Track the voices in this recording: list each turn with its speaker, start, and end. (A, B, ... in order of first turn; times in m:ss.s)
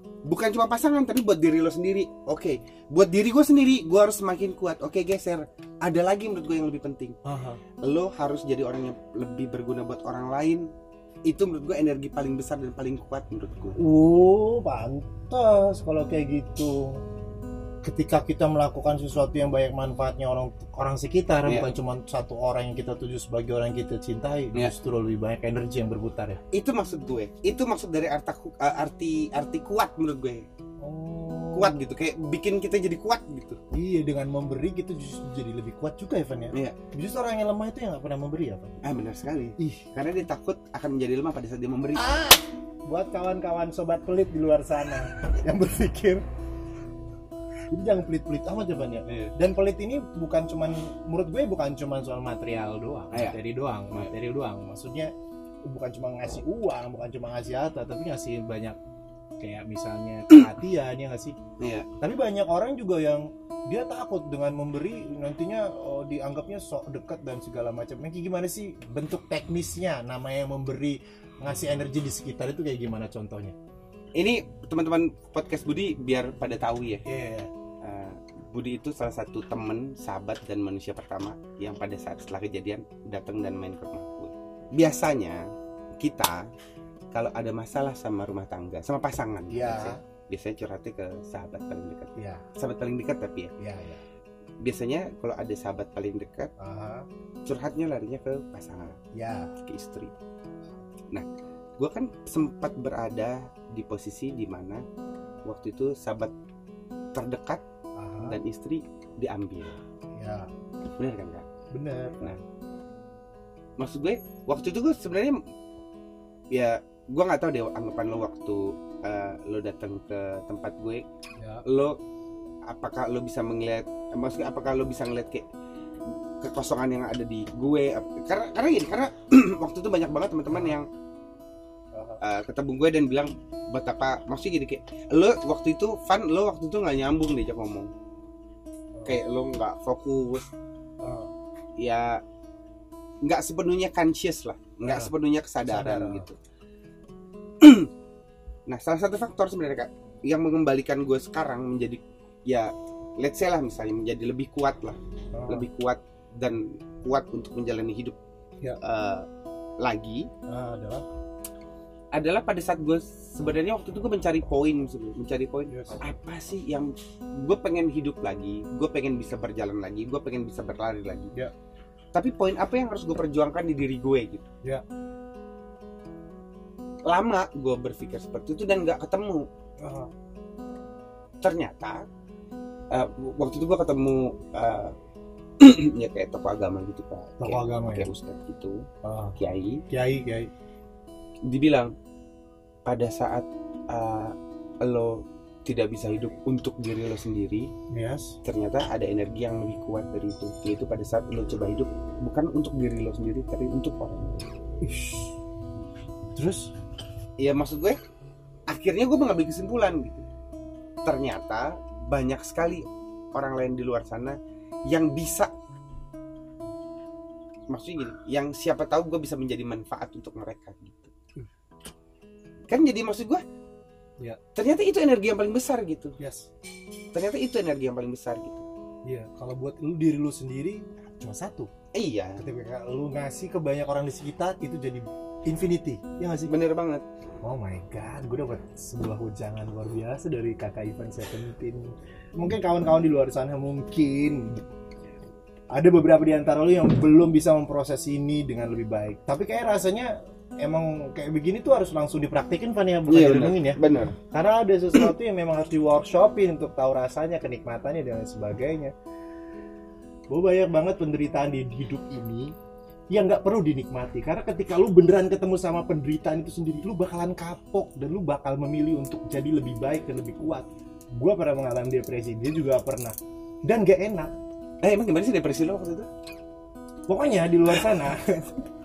0:00.2-0:07.2 A
0:07.2-0:07.6 B
0:07.8-0:10.7 A
0:11.3-0:13.8 A
0:13.8-0:17.0 B
0:17.8-0:26.4 B
0:26.5-0:30.4 A
0:30.8-0:31.8 B
0:31.5-0:33.6 A
0:33.7-0:38.8 B
0:38.8-0:42.1 A
0:39.6-0:39.9 B
0:42.0-0:46.2 B
0:47.7-0:55.1 B
0:49.1-0:49.3 A
0:55.7-0:58.8 B
0:59.4-1:01.4 B
1:01.6-1:01.9 A
1:02.0-1:13.5 B
1:14.2-1:17.0 A
1:17.1-1:17.5 B
1:17.8-1:25.4 A
1:26.0-1:26.5 A
1:27.1-1:33.5 A
1:29.5-1:30.0 B
1:32.2-1:32.4 B
1:33.6-1:34.0 B
1:34.6-1:36.5 A
1:36.6-1:37.0 B
1:37.4-1:39.0 A
1:39.1-1:39.5 B
1:39.6-1:40.1 A
1:41.8-1:44.8 A
1:45.4-1:46.3 A
1:47.1-1:47.6 A
1:48.0-1:48.4 B
1:48.2-1:49.8 A
1:50.2-1:50.5 B
1:51.0-1:51.4 A
1:51.7-1:52.3 B
1:53.8-1:55.4 A
1:56.5-2:01.0 A
2:01.4-2:01.6 B
2:01.6-2:01.9 A
2:02.7-2:05.4 A
2:06.4-2:10.9 A
2:10.5-2:10.8 B
2:11.9-2:12.2 B
2:12.2-2:17.9 A
2:18.9-2:19.2 B
2:19.0-2:20.4 A
2:21.0-2:21.3 B
2:21.8-2:22.2 A
2:23.2-2:26.4 A
2:24.8-2:25.1 B
2:25.6-2:26.3 B
2:27.6-2:27.9 A
2:28.7-2:38.2 A
2:35.3-2:35.7 B
2:38.8-2:39.2 A
2:39.8-2:40.3 A
2:40.5-2:41.0 B
2:42.1-2:51.3 A
2:45.7-2:46.0 B
2:52.1-2:54.5 A
2:57.0-2:59.4 A
2:59.8-3:00.1 B
3:01.4-3:02.0 A
3:02.9-3:04.9 A
3:05.6-3:08.8 A
3:07.4-3:08.1 B
3:09.0-3:09.3 B
3:09.4-3:09.8 A
3:09.9-3:10.5 B
3:11.5-3:11.9 A
3:12.8-3:17.7 A
3:17.9-3:18.4 B
3:18.4-3:24.4 A
3:24.8-3:25.3 B
3:26.3-3:26.7 B
3:27.4-3:28.0 A
3:28.7-3:30.2 A
3:31.0-3:34.4 A
3:34.9-3:35.5 A
3:37.7-3:41.1 A
3:42.7-3:43.4 A
3:44.5-3:46.1 A
3:46.2-3:46.5 B
3:47.1-3:48.6 A
3:49.0-3:51.7 B
3:51.9-3:52.4 A
3:52.4-3:56.5 B
3:56.4-3:57.0 A
3:57.4-4:04.6 B
4:05.7-4:13.8 B
4:13.1-4:14.2 A
4:14.3-4:18.9 B
4:20.3-4:22.5 B
4:23.1-4:33.1 B
4:33.6-4:34.3 B
4:34.8-4:36.1 A
4:37.1-4:38.6 B